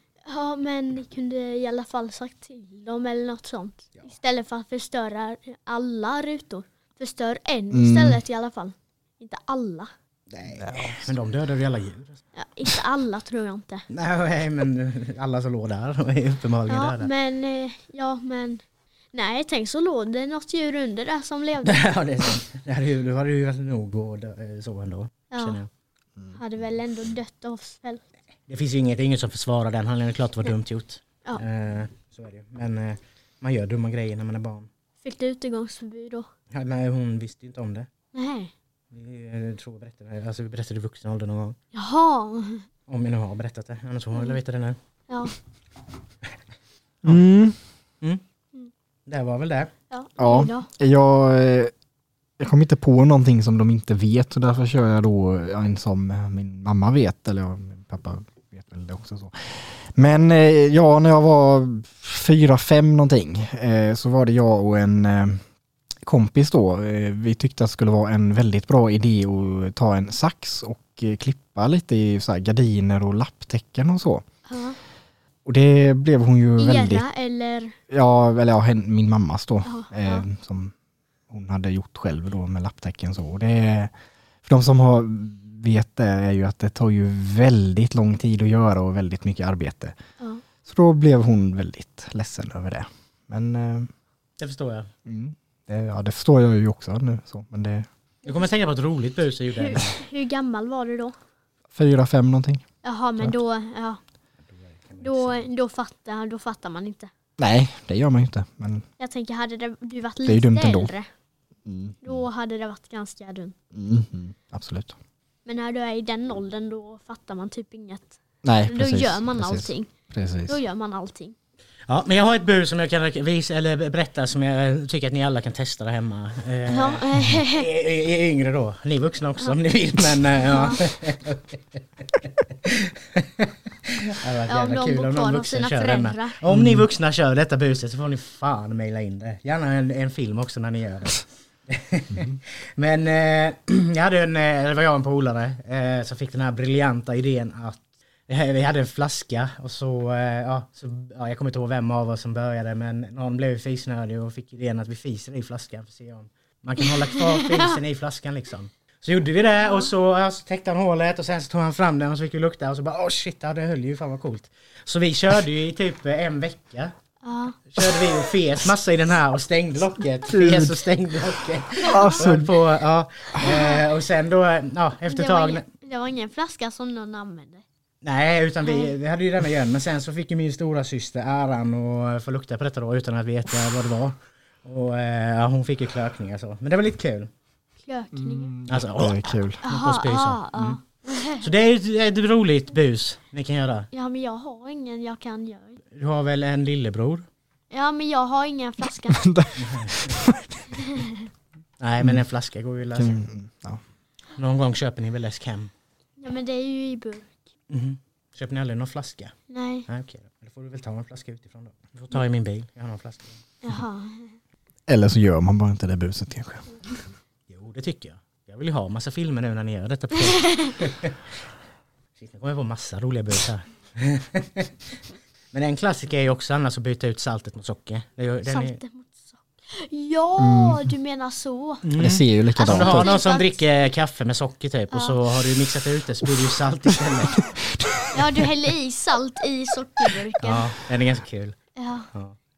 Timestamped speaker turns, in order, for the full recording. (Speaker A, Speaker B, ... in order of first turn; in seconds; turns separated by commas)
Speaker A: 0.2-9.9, Speaker B: 7.7-8.2, Speaker C: 10.3-12.2, Speaker B: 10.5-11.1, Speaker A: 12.3-13.8, Speaker C: 13.9-17.1, Speaker A: 16.7-18.6, Speaker A: 19.1-21.8, Speaker C: 21.6-25.7, Speaker A: 25.3-25.6, Speaker A: 26.4-28.0, Speaker C: 28.5-34.7, Speaker A: 35.0-36.3, Speaker C: 36.5-37.9, Speaker A: 38.1-38.5, Speaker C: 38.9-41.6, Speaker A: 41.7-42.6, Speaker C: 42.9-44.8, Speaker A: 45.1-45.3, Speaker B: 47.0-47.6, Speaker C: 49.1-49.7, Speaker A: 49.9-50.7, Speaker B: 50.2-51.7, Speaker B: 52.4-65.4, Speaker B: 66.0-74.2, Speaker A: 74.5-74.8, Speaker B: 75.5-77.0, Speaker A: 76.6-77.8, Speaker B: 77.9-80.7, Speaker A: 79.6-80.2, Speaker B: 81.3-83.9, Speaker B: 84.4-90.0, Speaker B: 90.6-93.9, Speaker C: 94.4-94.9, Speaker B: 95.0-97.9, Speaker C: 98.2-100.0, Speaker A: 99.6-101.1, Speaker B: 101.7-102.6, Speaker A: 102.8-104.0, Speaker C: 104.5-105.5, Speaker A: 105.0-107.1, Speaker B: 107.4-108.8, Speaker A: 109.0-111.1, Speaker B: 110.2-110.9, Speaker B: 111.7-112.2, Speaker A: 112.0-113.5, Speaker B: 113.7-114.9, Speaker A: 115.5-119.9, Speaker B: 118.4-120.6, Speaker A: 120.5-121.3, Speaker C: 121.9-166.9, Speaker A: 126.7-127.7, Speaker A: 130.3-130.8, Speaker A: 134.5-136.4, Speaker B: 136.5-136.8, Speaker B: 142.1-142.4, Speaker A: 157.3-157.7, Speaker A: 167.2-167.6, Speaker C: 167.7-175.6, Speaker B: 170.3-170.8, Speaker B: 171.8-172.5, Speaker A: 173.4-173.8, Speaker A: 175.1-177.6, Speaker C: 178.0-187.3, Speaker A: 178.6-178.9, Speaker A: 187.8-188.5, Speaker B: 188.1-189.6, Speaker C: 188.7-190.8, Speaker A: 189.6-191.4, Speaker C: 191.4-193.9, Speaker A: 193.9-195.8, Speaker C: 195.9-197.3, Speaker A: 197.7-199.3, Speaker B: 199.0-201.0, Speaker C: 199.6-200.2, Speaker C: 201.8-203.2, Speaker B: 202.9-203.8, Speaker C: 204.4-205.7, Speaker A: 206.2-207.4, Speaker C: 207.7-209.3, Speaker A: 209.5-209.8, Speaker C: 209.9-213.4, Speaker A: 213.6-214.3, Speaker B: 214.9-216.7, Speaker C: 217.5-221.2, Speaker A: 220.3-220.8, Speaker C: 222.2-224.7, Speaker C: 225.5-228.8, Speaker A: 228.5-231.8, Speaker B: 230.4-230.9, Speaker C: 231.8-237.4, Speaker B: 232.0-233.1, Speaker A: 232.5-233.6, Speaker A: 234.9-235.2, Speaker B: 237.2-238.7, Speaker A: 238.1-240.7, Speaker C: 240.4-241.6, Speaker A: 241.8-242.1